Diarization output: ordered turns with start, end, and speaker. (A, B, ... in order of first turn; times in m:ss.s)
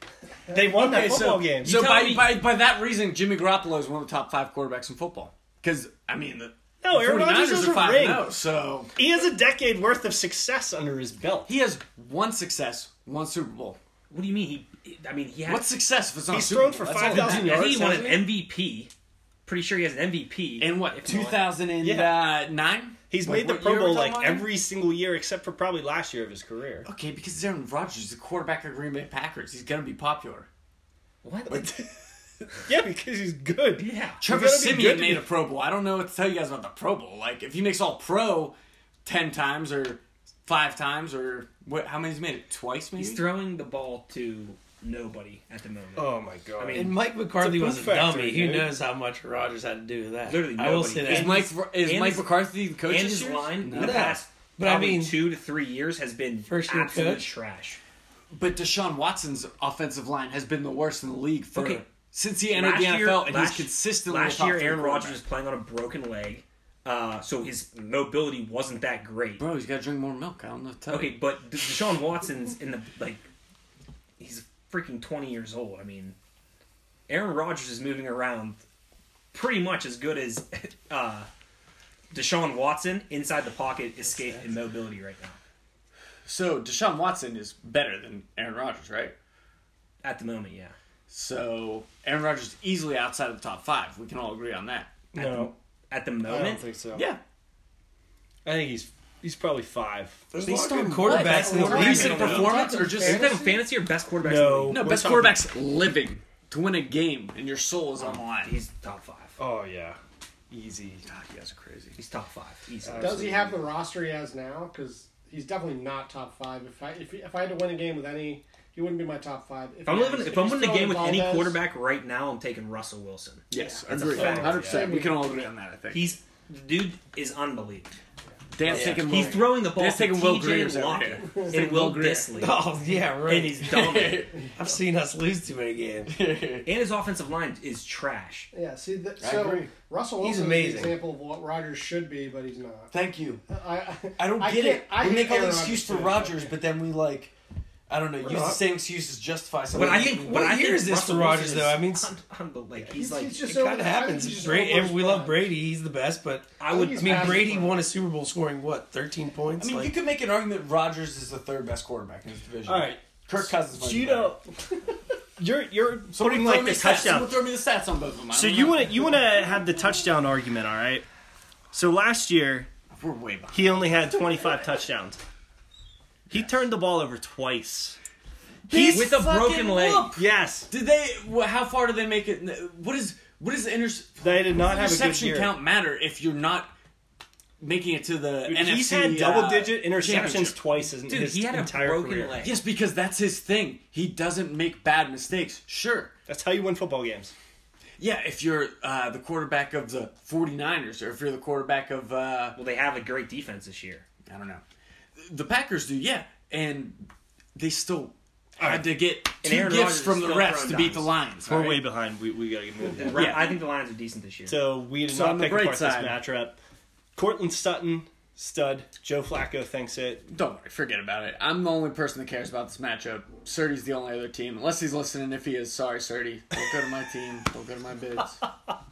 0:00.5-0:01.8 A
0:00.6-0:08.9 B
0:01.6-0:02.3 C
0:06.8-0:08.3 A
0:09.0-0:11.5 A
0:11.4-0:13.8 B
0:14.1-0:15.7 C
0:15.5-0:18.2 B
0:16.3-0:18.1 A
0:16.9-0:18.9 C
0:19.4-0:21.5 C
0:20.6-0:24.5 B
0:21.8-0:22.2 A
0:23.1-0:26.9 A
0:26.8-0:30.5 B
0:31.2-0:31.9 C
0:32.6-0:35.2 A
0:33.8-0:34.2 C
0:34.2-0:43.2 B
0:43.0-0:47.0 C
0:46.0-0:48.7 A
0:46.7-0:51.5 D
0:50.2-0:57.8 C
0:51.0-0:54.2 B
0:53.7-0:55.2 D
0:56.5-0:57.3 D
0:58.3-1:05.2 B
1:01.5-1:01.8 C
1:02.5-1:09.4 C
1:09.4-1:11.2 B
1:10.9-1:13.3 C
1:14.2-1:16.2 C
1:17.1-1:18.6 C
1:19.3-1:21.3 C
1:22.1-1:25.4 C
1:26.2-1:29.1 B
1:30.0-1:30.7 C
1:31.1-1:34.9 B
1:35.1-1:35.5 A
1:35.1-1:36.6 C
1:36.2-1:37.0 A
1:36.9-1:37.2 B
1:38.4-1:40.3 A
1:40.3-1:42.5 D
1:40.4-1:43.4 B
1:41.2-1:43.6 E
1:41.5-1:42.7 A
1:41.6-1:44.8 C
1:44.2-1:45.4 A
1:44.7-1:48.6 B
1:48.0-1:49.4 C
1:49.4-1:50.0 A
1:50.5-1:51.0 A
1:51.0-1:52.0 B
1:52.0-1:53.4 C
1:52.8-1:53.5 A
1:53.0-2:01.6 E
1:59.8-2:05.0 C
2:03.5-2:06.2 B
2:03.6-2:05.3 E
2:04.1-2:04.9 A
2:05.9-2:07.9 C
2:08.5-2:12.3 B
2:08.6-2:12.6 C
2:08.7-2:09.4 D
2:11.2-2:11.5 E
2:12.4-2:13.6 D
2:13.2-2:14.3 C
2:13.6-2:14.4 B
2:14.5-2:16.1 D
2:16.1-2:16.7 B
2:16.6-2:18.5 C
2:18.5-2:22.9 E
2:19.2-2:19.7 B
2:20.2-2:21.0 A
2:22.9-2:23.4 B
2:23.5-2:26.6 E
2:24.2-2:27.3 B
2:27.9-2:30.4 B
2:28.2-2:28.6 D
2:29.7-2:33.8 C
2:29.7-2:32.1 D
2:32.8-2:35.5 E
2:33.4-2:39.9 D
2:36.6-2:37.8 C
2:36.7-2:37.8 E
2:39.6-2:44.4 B
2:42.6-2:44.4 A
2:45.4-2:47.3 A
2:46.1-2:49.1 B
2:48.3-2:51.0 A
2:51.7-2:52.7 A
2:52.9-2:54.4 B
2:53.5-2:55.2 A
2:56.3-2:58.0 A
2:58.7-3:06.7 B
2:58.7-2:59.1 A
2:58.9-3:00.1 C
3:00.1-3:00.7 A
3:04.2-3:05.5 A
3:07.6-3:10.6 B
3:08.4-3:12.4 A
3:11.0-3:12.6 C
3:12.4-3:16.1 B
3:16.3-3:17.3 A
3:18.0-3:22.6 B
3:22.5-3:24.0 C
3:24.2-3:24.6 B
3:25.2-3:31.8 B
3:28.6-3:28.8 A
3:29.4-3:31.1 C
3:31.4-3:33.4 A
3:32.8-3:34.6 C
3:33.1-3:33.6 B
3:34.5-3:36.6 A
3:35.1-3:36.2 B
3:37.1-3:40.2 A
3:40.3-3:48.4 B